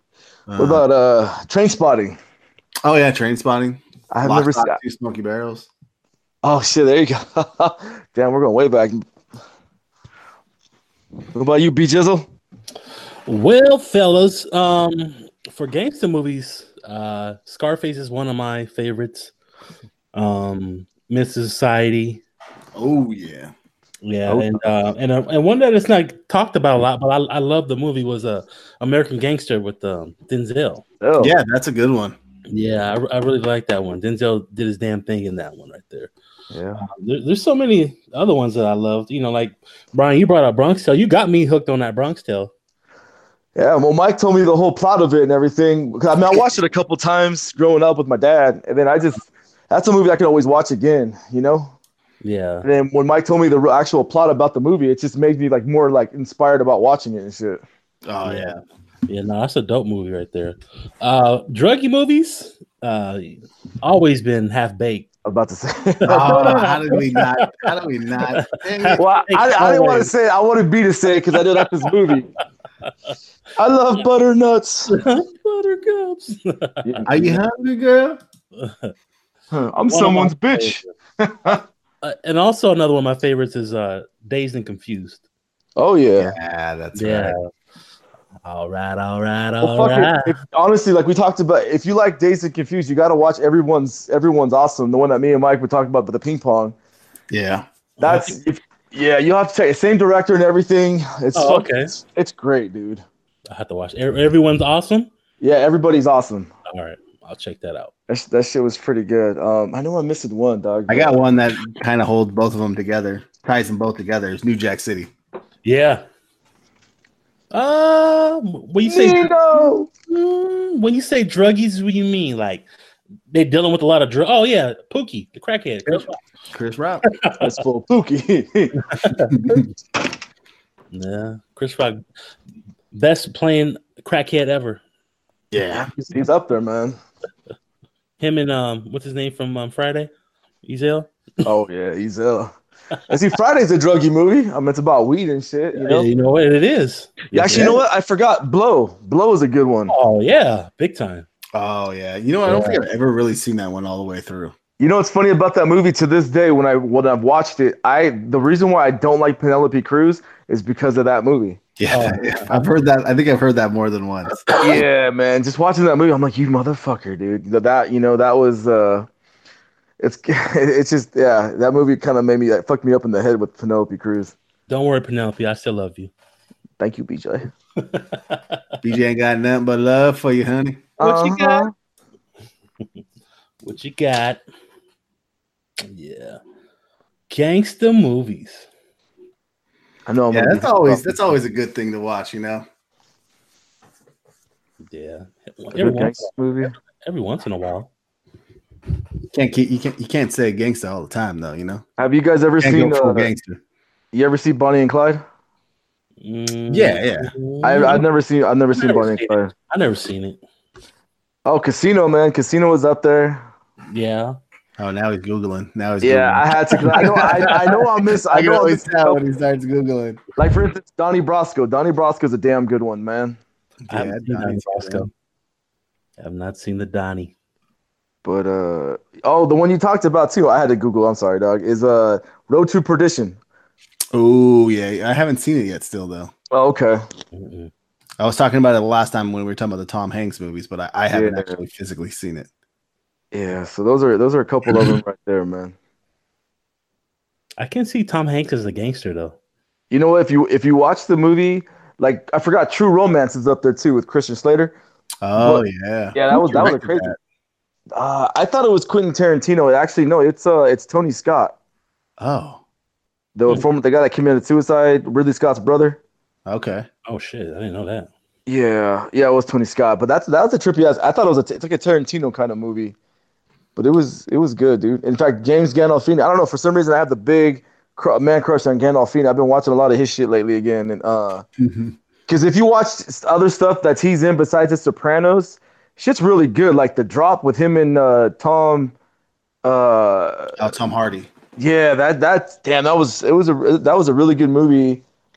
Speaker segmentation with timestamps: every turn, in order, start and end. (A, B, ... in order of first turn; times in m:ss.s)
0:00.5-0:00.8 A
0:00.6-0:02.2 B
0:02.8-0:05.7 A
0:04.1-0:04.8 B
0:06.4-0:09.0 B
0:11.3-0:12.3 B
0:13.3-0:19.3 C
0:20.1-0:22.2 C
0:22.8-0:23.5 A
0:24.0-0:30.8 C
0:24.3-0:24.6 B
0:31.0-0:31.4 B
0:31.2-0:32.2 A
0:32.5-0:36.1 C
0:36.5-0:36.9 B
0:36.8-0:42.5 C
0:43.6-0:51.8 B
0:52.2-0:52.6 C
0:52.6-0:57.6 B
0:58.1-0:58.6 A
0:58.2-0:58.5 C
0:59.1-1:05.1 C
1:05.2-1:06.7 B
1:06.1-1:07.5 C
1:06.1-1:09.0 A
1:08.3-1:10.1 C
1:09.0-1:12.3 B
1:13.6-1:15.0 B
1:14.9-1:17.1 C
1:16.8-1:17.4 B
1:17.1-1:18.2 A
1:18.6-1:18.9 C
1:19.5-1:21.6 B
1:19.9-1:20.8 C
1:22.0-1:25.2 C
1:25.8-1:26.4 B
1:26.2-1:27.4 A
1:27.0-1:27.5 C
1:28.4-1:30.4 C
1:29.6-1:36.8 B
1:37.3-1:37.7 A
1:38.0-1:38.4 C
1:38.0-1:43.0 B
1:41.4-1:41.9 C
1:43.5-1:45.1 C
1:45.4-1:46.5 B
1:46.7-1:47.9 C
1:48.1-1:51.2 B
1:50.9-1:55.1 A
1:55.6-1:56.0 C
1:57.5-2:02.6 C
1:58.8-1:59.9 B
2:03.3-2:06.2 C
2:06.5-2:07.0 A
2:07.1-2:07.5 C
2:07.4-2:08.8 B
2:09.0-2:09.3 C
2:10.9-2:12.0 C
2:12.9-2:14.8 C
2:15.5-2:15.9 A
2:15.7-2:17.0 B
2:18.2-2:20.1 C
2:20.6-2:21.1 C
2:21.4-2:22.5 B
2:23.1-2:26.1 B
2:25.8-2:27.8 C
2:27.3-2:30.0 B
2:29.9-2:31.3 C
2:31.6-2:34.5 A
2:32.4-2:32.8 C
2:34.8-2:41.6 B
2:41.8-2:44.5 A
2:41.9-2:42.6 C
2:44.6-2:49.1 B
2:50.0-2:54.4 B
2:54.7-2:56.1 C
2:56.8-2:57.5 B
2:57.8-2:58.6 C
2:58.8-3:00.9 A
3:01.0-3:01.7 B
3:01.0-3:01.7 C
3:03.6-3:04.4 C
3:05.9-3:06.4 C
3:07.3-3:08.7 C
3:10.1-3:11.2 B
3:10.3-3:12.6 A
3:14.8-3:16.3 C
3:15.7-3:16.7 B
3:17.0-3:17.9 C
3:19.3-3:21.8 A
3:22.0-3:23.3 B
3:22.6-3:23.6 A
3:24.1-3:25.2 B
3:26.2-3:28.1 C
3:26.7-3:27.3 A
3:27.6-3:29.5 B
3:28.8-3:30.4 C
3:31.5-3:33.5 B
3:33.9-3:34.4 C
3:34.8-3:40.2 A
3:36.0-3:39.2 B
3:40.4-3:43.4 B
3:43.9-3:45.1 A
3:43.9-3:45.1 C
3:46.2-3:47.3 C
3:48.2-3:53.4 B
3:54.1-3:56.3 A
3:56.5-3:57.0 B
3:57.3-3:57.7 C
3:58.2-4:02.5 A
4:01.1-4:01.6 B
4:03.3-4:05.8 B
4:07.6-4:09.4 C
4:09.9-4:14.8 B
4:15.2-4:17.2 A
4:15.4-4:17.1 B
4:18.0-4:21.6 B
4:22.2-4:22.6 A
4:23.4-4:26.0 B
4:26.5-4:26.9 A
4:27.1-4:28.1 C
4:28.5-4:33.0 B
4:33.8-4:41.4 B
4:41.6-4:42.0 A
4:42.3-4:48.9 B
4:49.6-4:50.7 B
4:50.6-4:51.3 A
4:51.6-4:55.0 B